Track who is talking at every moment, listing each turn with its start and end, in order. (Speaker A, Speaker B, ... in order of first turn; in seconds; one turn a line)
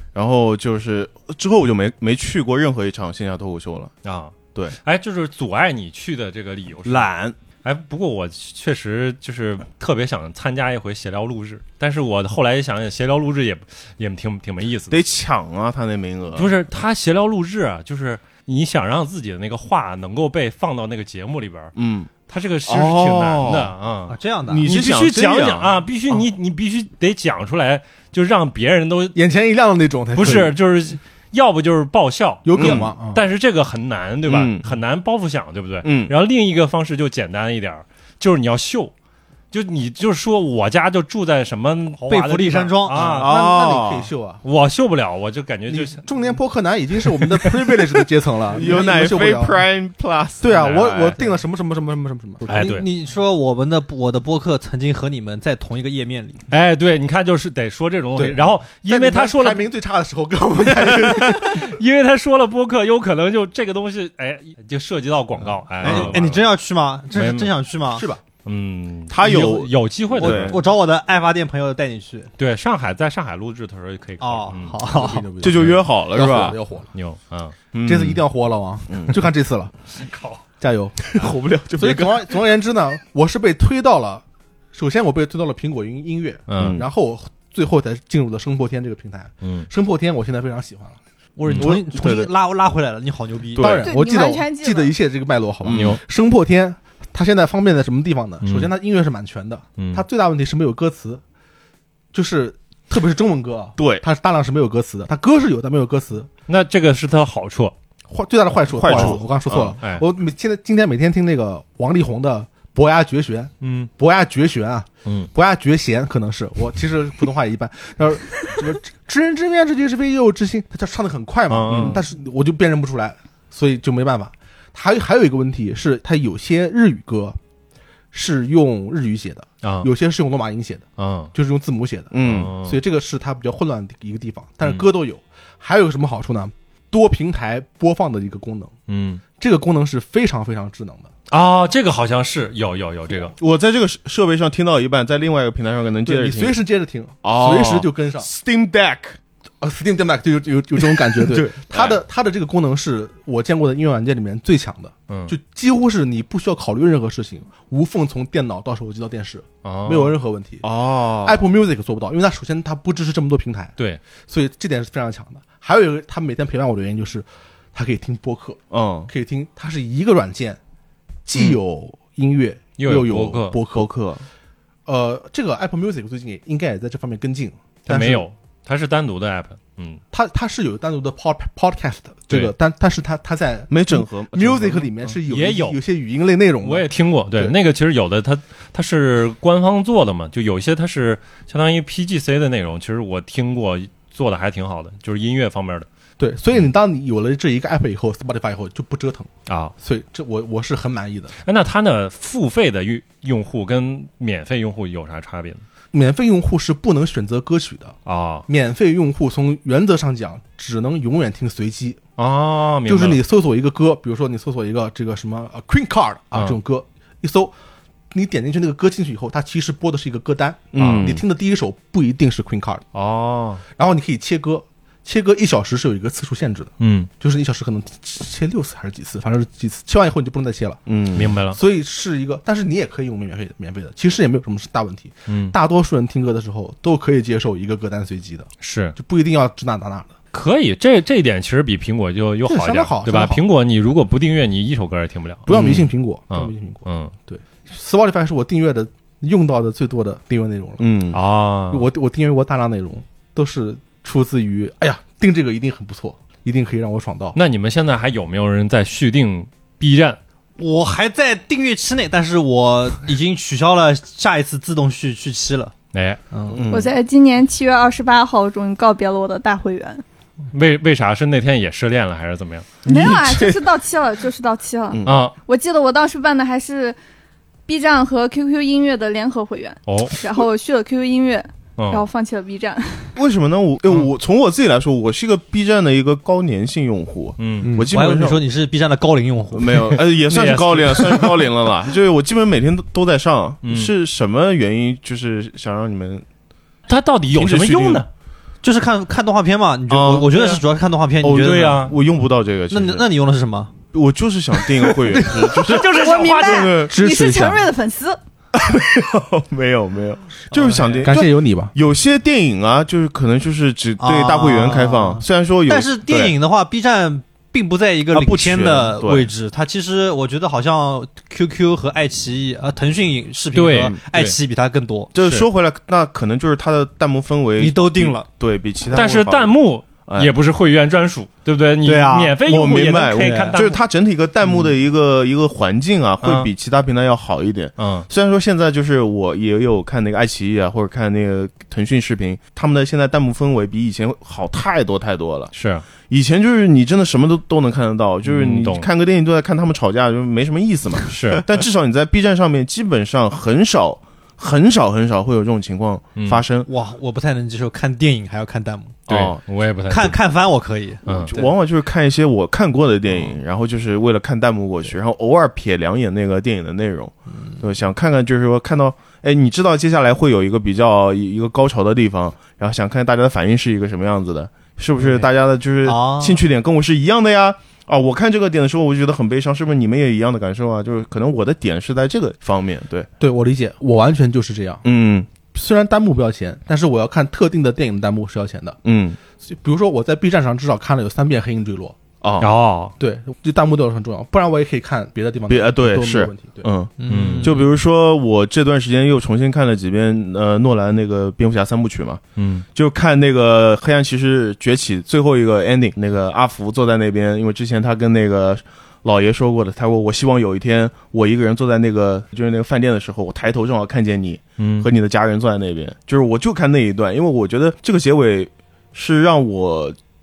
Speaker A: 0.1-3.9
Speaker B: 4.0-7.1
Speaker A: 6.8-7.3
Speaker B: 7.6-15.0
Speaker A: 14.9-16.5
Speaker B: 16.4-21.7
Speaker A: 21.8-22.1
Speaker B: 22.3-29.2
Speaker A: 22.7-23.7
Speaker C: 24.1-24.7
Speaker A: 24.4-25.8
Speaker D: 29.1-30.6
Speaker B: 30.1-38.9
Speaker D: 32.4-33.2
Speaker A: 32.6-32.9
Speaker A: 34.2-34.6
Speaker A: 35.8-36.1
Speaker B: 39.5-43.3
Speaker C: 42.0-43.3
Speaker A: 43.2-44.1
Speaker D: 43.2-44.4
Speaker B: 44.4-46.1
Speaker D: 45.7-49.6
Speaker B: 47.2-47.6
Speaker A: 48.5-51.2
Speaker D: 50.4-52.8
Speaker B: 50.5-50.9
Speaker B: 52.5-52.9
Speaker C: 52.5-56.4
Speaker B: 56.5-59.6
Speaker D: 58.1-61.8
Speaker B: 60.7-66.4
Speaker C: 65.8-68.0
Speaker A: 65.8-66.2
Speaker D: 65.8-66.1
Speaker B: 67.1-67.5
Speaker D: 67.9-68.2
Speaker B: 68.4-70.6
Speaker A: 69.1-70.6
Speaker C: 70.1-72.3
Speaker B: 72.4-74.8
Speaker C: 74.2-75.3
Speaker D: 74.8-76.9
Speaker A: 75.4-76.6
Speaker B: 75.5-75.8
Speaker B: 76.9-77.5
Speaker A: 77.7-78.2
Speaker D: 77.8-79.7
Speaker A: 78.9-79.2
Speaker B: 79.9-80.4
Speaker D: 80.6-91.0
Speaker A: 81.1-82.3
Speaker B: 86.5-86.8
Speaker A: 86.6-86.8
Speaker B: 89.4-89.7
Speaker C: 91.4-93.8
Speaker A: 91.5-92.3
Speaker A: 93.5-93.9
Speaker D: 93.6-101.2
Speaker E: 93.8-94.9
Speaker A: 95.6-96.0
Speaker B: 95.7-96.0
Speaker B: 98.4-98.7
Speaker B: 99.8-100.0
Speaker D: 102.1-106.3
Speaker A: 103.8-104.0
Speaker B: 106.5-107.7
Speaker D: 108.1-127.4
Speaker A: 108.7-109.8
Speaker B: 108.9-109.2
Speaker B: 109.8-110.0
Speaker B: 113.6-113.9
Speaker B: 121.5-122.0
Speaker A: 121.7-122.0
Speaker D: 128.1-138.7
Speaker B: 129.6-129.9
Speaker B: 131.0-131.3
Speaker A: 132.1-132.5
Speaker B: 132.2-132.8
Speaker B: 138.9-139.2
Speaker D: 139.4-141.1
Speaker B: 141.3-143.3
Speaker A: 143.3-146.6
Speaker D: 146.0-148.3
Speaker A: 147.2-149.2
Speaker D: 149.6-160.7
Speaker A: 151.0-152.0
Speaker B: 155.1-155.3
Speaker B: 159.6-160.1
Speaker A: 160.6-161.4
Speaker D: 161.2-170.6
Speaker A: 168.7-169.1
Speaker D: 171.2-173.9
Speaker B: 172.8-173.6
Speaker A: 173.7-174.2
Speaker D: 174.8-178.3
Speaker B: 177.8-180.0
Speaker D: 180.1-187.5
Speaker A: 183.7-184.9
Speaker B: 185.2-185.8
Speaker B: 186.6-195.9
Speaker D: 196.2-199.3
Speaker B: 199.5-199.7
Speaker D: 199.8-201.3
Speaker B: 201.4-205.6
Speaker D: 205.9-207.9
Speaker B: 208.1-208.4
Speaker D: 208.5-212.0
Speaker B: 212.2-213.2
Speaker D: 212.8-217.5
Speaker D: 218.1-222.8
Speaker A: 220.7-221.2
Speaker B: 220.8-221.1
Speaker B: 222.9-223.6
Speaker D: 223.8-230.8
Speaker B: 226.8-227.1
Speaker A: 230.9-231.3
Speaker B: 231.1-231.6
Speaker D: 231.5-240.2
Speaker B: 235.3-235.5
Speaker B: 238.6-238.9
Speaker B: 240.3-247.1
Speaker D: 242.4-243.4
Speaker D: 245.5-250.8
Speaker A: 245.5-245.9
Speaker A: 250.8-251.2
Speaker B: 251.1-251.9
Speaker D: 251.7-257.4
Speaker B: 257.3-260.2
Speaker C: 260.6-265.7
Speaker B: 265.9-266.2
Speaker C: 266.3-266.6
Speaker A: 266.5-266.9
Speaker E: 266.7-270.0
Speaker B: 270.5-272.7
Speaker A: 272.8-273.6
Speaker E: 272.9-277.0
Speaker A: 274.9-275.3
Speaker B: 275.1-275.3
Speaker E: 277.7-283.1
Speaker B: 279.9-280.1
Speaker B: 281.8-282.0
Speaker A: 283.1-288.5
Speaker B: 287.4-287.7
Speaker C: 287.8-290.0
Speaker A: 289.5-296.2
Speaker B: 290.0-291.5
Speaker B: 293.6-293.9
Speaker B: 296.9-298.1
Speaker A: 297.3-298.0
Speaker C: 298.6-301.7
Speaker A: 299.9-300.6
Speaker A: 301.2-303.1
Speaker B: 301.3-301.9
Speaker C: 302.7-303.7
Speaker A: 303.9-306.9
Speaker C: 304.8-305.4
Speaker B: 305.4-306.8
Speaker E: 305.7-308.2
Speaker D: 306.8-307.6
Speaker A: 308.5-316.4
Speaker C: 310.5-311.1
Speaker D: 311.0-311.7
Speaker C: 314.0-325.1
Speaker A: 318.1-319.3
Speaker B: 323.5-324.4
Speaker A: 325.1-330.3
Speaker B: 325.2-325.5
Speaker C: 327.6-328.3
Speaker B: 328.9-333.8
Speaker C: 331.8-332.4
Speaker A: 332.4-345.5
Speaker C: 333.2-333.6
Speaker B: 336.2-336.5
Speaker B: 337.8-338.1
Speaker B: 345.5-345.8
Speaker A: 346.1-356.7
Speaker B: 348.2-348.9
Speaker B: 351.1-351.4
Speaker B: 356.1-356.4
Speaker C: 356.6-359.0
Speaker A: 359.1-359.4
Speaker B: 359.1-360.2
Speaker C: 359.9-361.5
Speaker B: 361.1-361.4
Speaker A: 361.1-383.1
Speaker C: 367.3-367.6
Speaker C: 375.0-375.3
Speaker C: 375.8-376.4
Speaker D: 383.2-384.8
Speaker A: 384.8-385.3
Speaker D: 385.5-388.8
Speaker A: 388.8-389.2
Speaker D: 389.4-391.9
Speaker A: 392.2-392.5
Speaker B: 392.4-392.9
Speaker D: 393.0-396.7
Speaker A: 395.5-402.2
Speaker C: 397.0-397.7
Speaker B: 397.1-397.6
Speaker B: 402.4-402.6
Speaker A: 402.7-420.0
Speaker B: 414.6-414.9